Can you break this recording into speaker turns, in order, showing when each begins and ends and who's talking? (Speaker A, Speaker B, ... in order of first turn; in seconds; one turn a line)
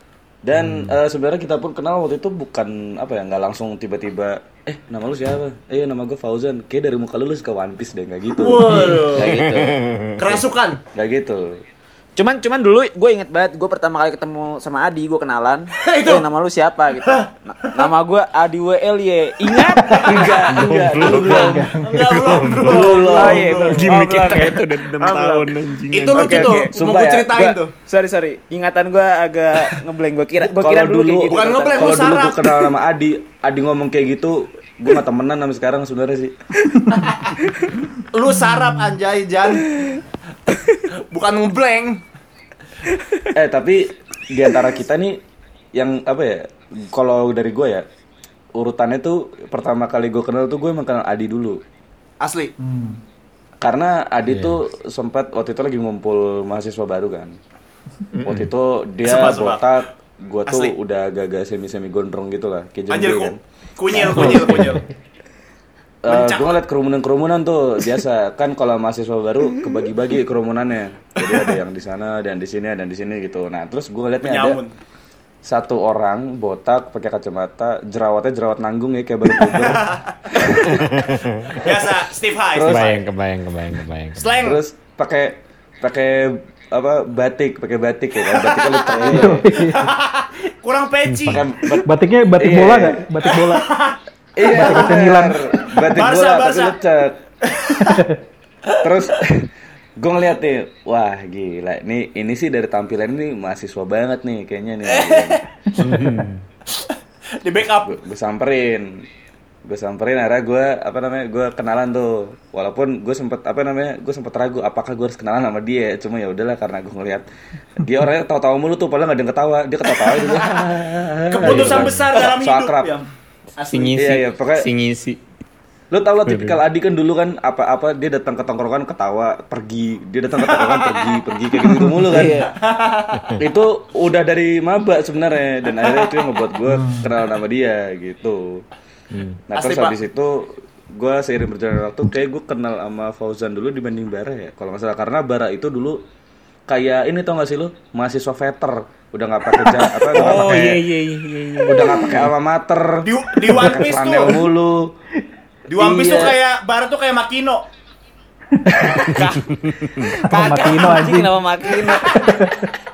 Speaker A: 0.4-9.0
Speaker B: 0.6-0.9
Speaker C: 8.4-9.4
Speaker D: 9.0-9.8
Speaker B: 9.0-10.2
Speaker C: 10.2-10.8
Speaker A: 10.9-11.6
Speaker D: 12.2-20.1
Speaker C: 15.8-16.2
Speaker C: 17.0-17.9
Speaker C: 19.5-20.4
Speaker A: 20.0-21.7
Speaker B: 20.5-26.6
Speaker E: 20.5-22.2
Speaker C: 21.8-24.0
Speaker A: 22.6-23.6
Speaker D: 23.1-24.6
Speaker C: 25.0-27.7
Speaker D: 26.1-26.7
Speaker A: 26.7-27.6
Speaker D: 27.9-32.1
Speaker A: 30.4-36.3
Speaker C: 31.3-32.6
Speaker C: 37.0-37.5
Speaker C: 38.1-39.7
Speaker C: 41.1-42.0
Speaker A: 43.3-45.2
Speaker A: 45.8-47.9
Speaker A: 48.5-51.6
Speaker C: 52.2-52.5
Speaker E: 52.6-53.0
Speaker A: 53.6-57.4
Speaker B: 54.3-54.6
Speaker B: 58.1-58.5
Speaker A: 58.2-64.8
Speaker C: 59.0-59.7
Speaker C: 60.5-60.7
Speaker C: 62.9-64.9
Speaker B: 64.1-64.8
Speaker A: 66.0-74.6
Speaker C: 66.1-66.6
Speaker C: 74.2-74.7
Speaker A: 75.5-80.7
Speaker C: 79.5-83.0
Speaker B: 80.5-81.7
Speaker A: 82.5-82.9
Speaker B: 82.6-84.5
Speaker C: 84.2-84.6
Speaker A: 84.4-89.5
Speaker C: 88.3-91.7
Speaker D: 88.9-89.4
Speaker E: 89.0-89.9
Speaker B: 91.1-91.5
Speaker A: 91.3-93.1
Speaker E: 91.8-93.7
Speaker C: 93.2-95.0
Speaker A: 94.4-97.2
Speaker E: 94.5-95.6
Speaker C: 95.8-96.8
Speaker C: 97.5-98.1
Speaker E: 97.9-98.2
Speaker A: 98.8-105.4
Speaker C: 104.9-105.4
Speaker E: 105.7-106.2
Speaker B: 105.8-106.5
Speaker C: 106.7-107.9
Speaker A: 107.8-109.1
Speaker A: 109.7-122.9
Speaker C: 120.1-120.5
Speaker C: 121.3-124.0
Speaker B: 121.4-122.0
Speaker B: 123.7-125.2
Speaker A: 124.0-124.7
Speaker A: 125.9-132.5
Speaker B: 126.2-126.6
Speaker C: 130.5-131.2
Speaker D: 132.0-132.5
Speaker C: 132.2-133.4
Speaker A: 133.4-138.6
Speaker C: 135.8-136.2
Speaker E: 136.7-137.1
Speaker B: 139.1-139.4
Speaker A: 139.5-146.0
Speaker C: 139.5-140.0
Speaker A: 146.7-150.8
Speaker B: 149.7-152.3
Speaker A: 151.6-154.9
Speaker C: 153.0-154.4
Speaker C: 155.7-157.6
Speaker D: 155.8-156.4
Speaker E: 158.5-159.1
Speaker D: 159.0-159.4
Speaker B: 159.1-160.1
Speaker D: 160.0-162.4
Speaker E: 160.2-161.4
Speaker C: 161.8-162.2
Speaker E: 161.9-162.7